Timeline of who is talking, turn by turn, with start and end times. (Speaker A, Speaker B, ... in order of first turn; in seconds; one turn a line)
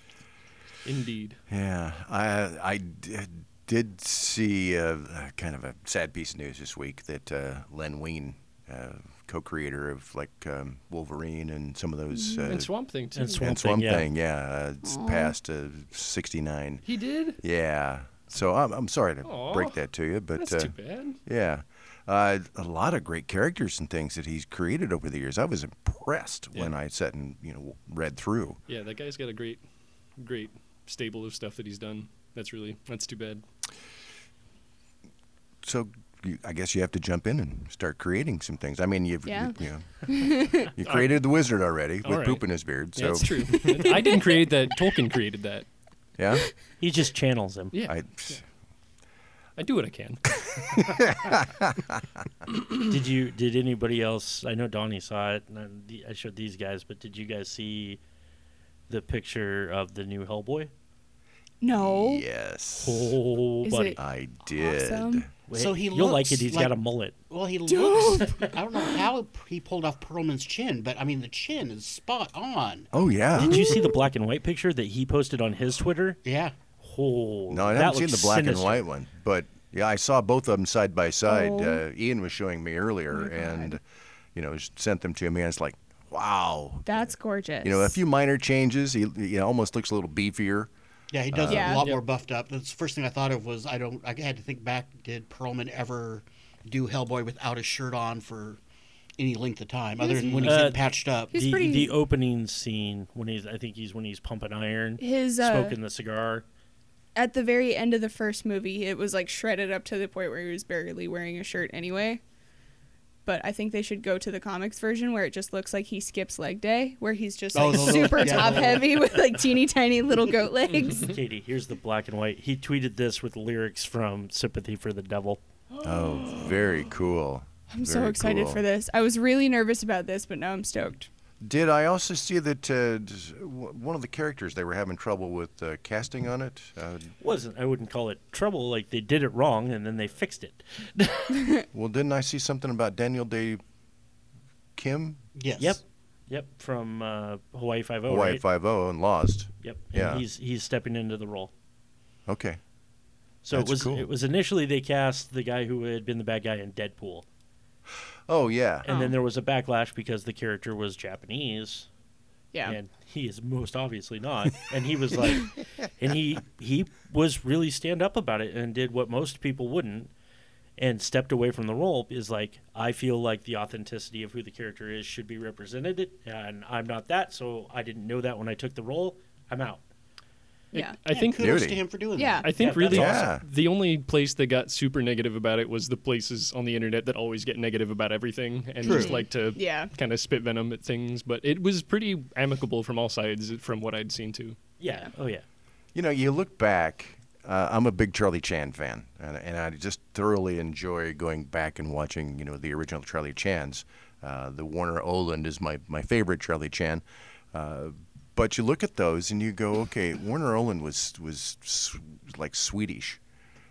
Speaker A: 0.8-1.4
Speaker B: 1.5-12.7
Speaker C: 12.1-12.5
Speaker A: 12.4-13.4
Speaker D: 13.1-14.1
Speaker B: 13.3-16.8
Speaker C: 14.8-15.3
Speaker A: 16.8-17.4
Speaker B: 17.4-28.6
Speaker A: 19.2-19.8
Speaker A: 20.4-21.2
Speaker A: 28.7-29.6
Speaker A: 30.1-33.5
Speaker B: 35.6-43.6
Speaker C: 39.3-40.7
Speaker A: 40.8-41.2
Speaker A: 42.0-45.7
Speaker B: 46.2-46.5
Speaker D: 46.8-47.8
Speaker A: 47.7-48.4
Speaker B: 47.9-48.4
Speaker A: 49.6-50.3
Speaker B: 50.8-52.0
Speaker D: 52.9-58.0
Speaker D: 58.9-60.7
Speaker C: 61.6-62.2
Speaker B: 61.7-63.2
Speaker D: 62.8-64.0
Speaker C: 63.6-64.0
Speaker B: 64.0-65.3
Speaker C: 64.5-65.2
Speaker D: 65.5-67.2
Speaker E: 65.5-66.7
Speaker E: 67.3-72.9
Speaker C: 67.7-69.0
Speaker B: 72.9-73.7
Speaker D: 73.4-76.2
Speaker C: 73.5-73.9
Speaker E: 76.2-76.5
Speaker D: 76.8-78.8
Speaker B: 77.5-83.8
Speaker C: 81.3-81.8
Speaker C: 83.1-83.8
Speaker B: 84.3-87.0
Speaker C: 86.9-88.0
Speaker B: 87.6-90.7
Speaker E: 91.1-98.6
Speaker B: 91.3-91.8
Speaker C: 91.5-91.8
Speaker E: 99.2-101.3
Speaker C: 100.0-100.6
Speaker D: 100.4-106.5
Speaker C: 101.3-101.9
Speaker C: 105.0-105.8
Speaker C: 107.2-112.2
Speaker C: 113.3-121.1
Speaker E: 117.5-119.0
Speaker D: 120.9-125.4
Speaker B: 125.8-128.6
Speaker C: 127.7-131.1
Speaker B: 131.4-137.1
Speaker D: 137.2-141.6
Speaker B: 141.7-143.6
Speaker B: 144.8-145.2
Speaker E: 145.4-145.8
Speaker D: 145.6-148.4
Speaker B: 148.1-150.2
Speaker D: 149.6-151.5
Speaker B: 152.3-152.6
Speaker D: 153.4-157.2
Speaker B: 153.5-154.1
Speaker B: 158.3-158.9
Speaker D: 158.8-161.9
Speaker C: 158.9-159.1
Speaker D: 162.6-170.1
Speaker D: 170.8-179.8
Speaker A: 180.7-181.6
Speaker E: 181.1-183.0
Speaker B: 181.4-181.8
Speaker C: 182.2-182.5
Speaker A: 182.4-194.6
Speaker D: 182.5-183.2
Speaker B: 182.9-183.4
Speaker E: 188.8-189.2
Speaker C: 188.8-189.9
Speaker D: 194.8-195.4
Speaker B: 195.9-213.2